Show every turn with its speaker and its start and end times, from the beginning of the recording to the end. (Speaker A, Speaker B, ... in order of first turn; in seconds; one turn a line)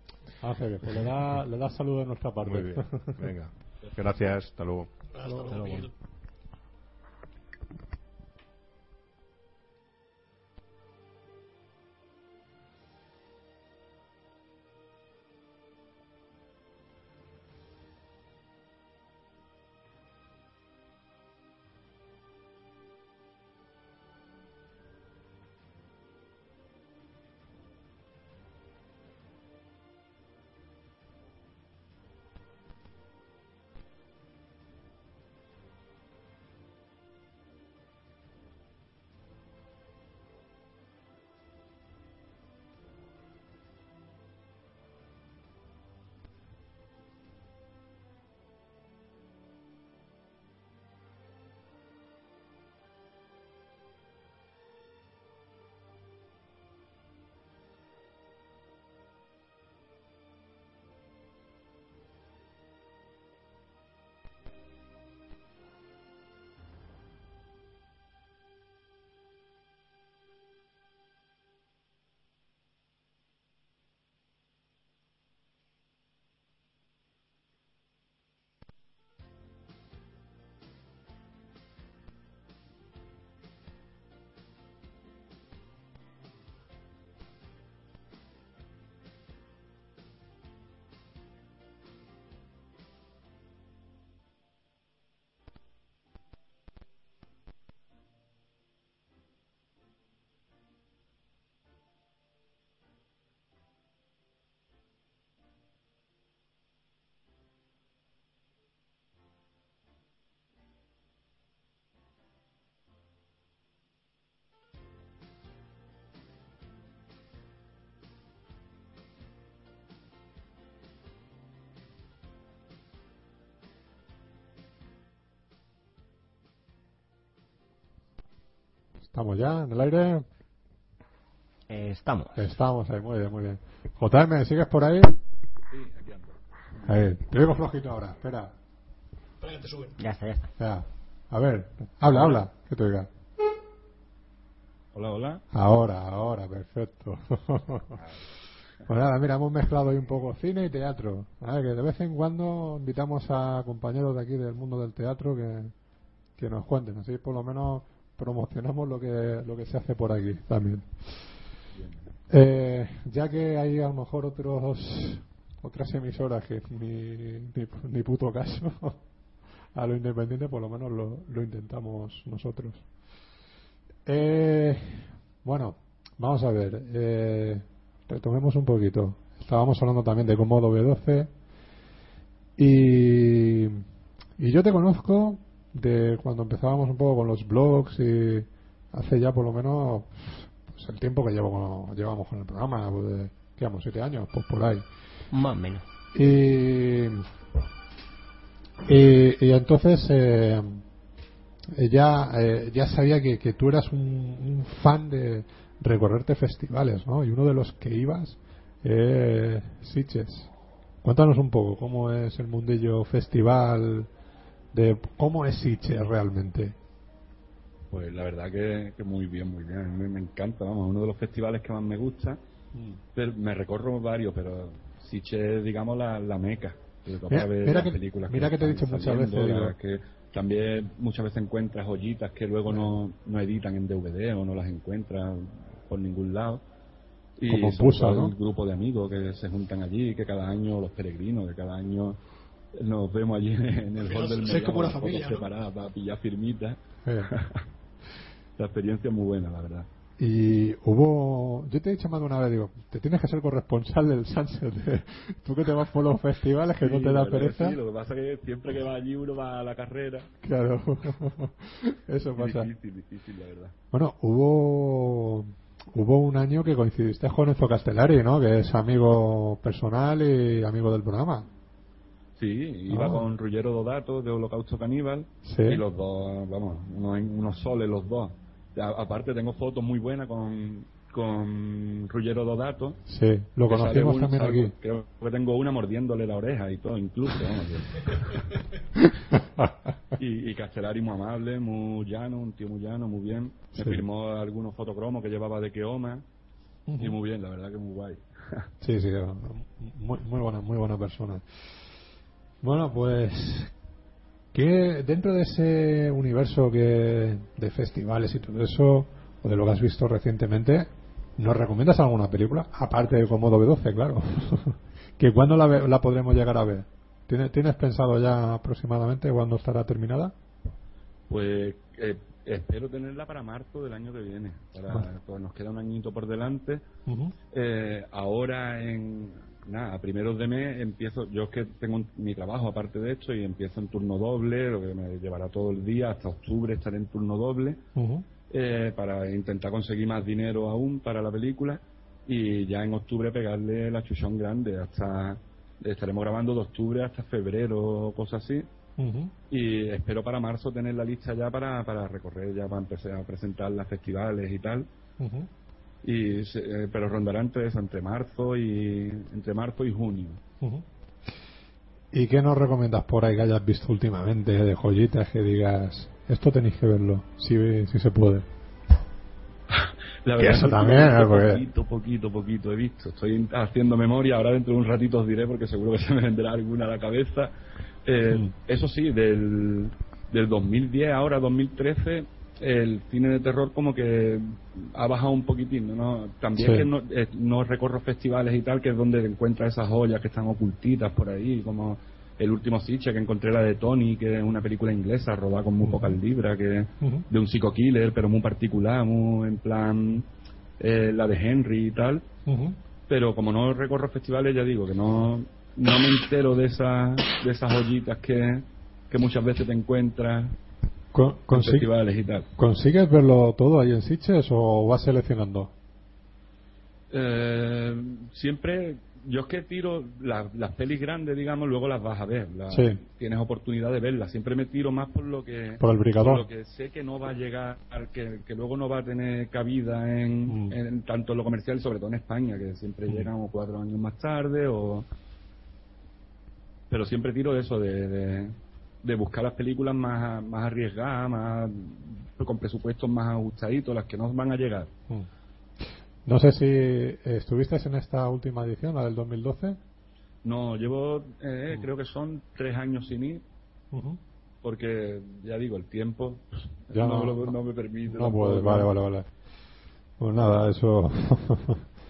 Speaker A: 0.4-3.3
Speaker B: 2.4-4.9
Speaker C: 5.1-5.9
Speaker A: 5.4-5.6
Speaker D: 5.5-5.9
Speaker A: 129.1-130.2
Speaker D: 131.7-132.3
Speaker A: 132.3-135.2
Speaker E: 135.7-137.0
Speaker A: 136.8-138.5
Speaker C: 139.4-140.0
Speaker D: 140.0-140.5
Speaker A: 140.6-143.1
Speaker E: 142.0-142.4
Speaker E: 144.9-145.4
Speaker A: 145.5-148.0
Speaker E: 147.9-148.2
Speaker A: 148.9-155.7
Speaker A: 156.4-160.9
Speaker E: 161.8-162.1
Speaker A: 162.3-169.0
Speaker A: 169.7-172.8
Speaker A: 174.1-181.3
Speaker A: 182.6-183.8
Speaker A: 184.4-194.8
Speaker D: 195.3-195.8
Speaker A: 196.1-197.2
Speaker A: 198.8-200.8
Speaker A: 201.7-210.5
Speaker A: 211.0-214.1
Speaker A: 214.7-216.8
Speaker E: 217.9-222.4
Speaker A: 222.7-223.0
Speaker E: 223.1-236.6
Speaker A: 227.3-229.8
Speaker E: 237.4-242.2
Speaker A: 237.5-238.3
Speaker E: 242.7-247.6
Speaker C: 244.0-245.5
Speaker A: 247.0-247.3
Speaker E: 248.6-249.9
Speaker A: 250.2-257.8
Speaker E: 256.8-260.3
Speaker A: 260.4-262.7
Speaker E: 262.4-263.7
Speaker A: 263.9-271.5
Speaker E: 272.4-283.0
Speaker A: 272.9-273.2
Speaker A: 275.4-275.8
Speaker A: 283.1-284.7
Speaker E: 283.7-288.5
Speaker A: 289.0-289.9
Speaker E: 290.2-296.2
Speaker A: 293.7-294.0
Speaker A: 296.9-297.1
Speaker E: 297.0-298.7
Speaker A: 298.8-301.4
Speaker A: 302.6-303.7
Speaker A: 304.5-320.3
Speaker E: 321.3-326.8
Speaker A: 327.1-327.3
Speaker E: 327.5-337.8
Speaker A: 337.9-338.2
Speaker E: 338.5-348.6
Speaker A: 349.0-349.3
Speaker E: 349.5-354.9
Speaker A: 355.2-355.5
Speaker E: 356.0-360.4
Speaker A: 362.1-368.5
Speaker E: 369.7-377.5
Speaker A: 370.4-371.6
Speaker E: 378.1-400.2
Speaker A: 386.6-386.9
Speaker A: 395.8-396.2
Speaker E: 400.8-402.2
Speaker A: 402.5-402.8
Speaker E: 403.1-410.5
Speaker A: 411.1-411.9
Speaker E: 411.5-412.5
Speaker A: 412.6-415.7
Speaker E: 417.1-435.1
Speaker A: 422.7-423.0
Speaker A: 425.8-426.5
Speaker A: 430.5-430.8
Speaker E: 436.9-444.9
Speaker A: 446.2-449.8
Speaker E: 450.4-453.4
Speaker A: 453.9-454.2
Speaker E: 454.6-458.9
Speaker A: 456.9-459.3
Speaker A: 460.2-461.8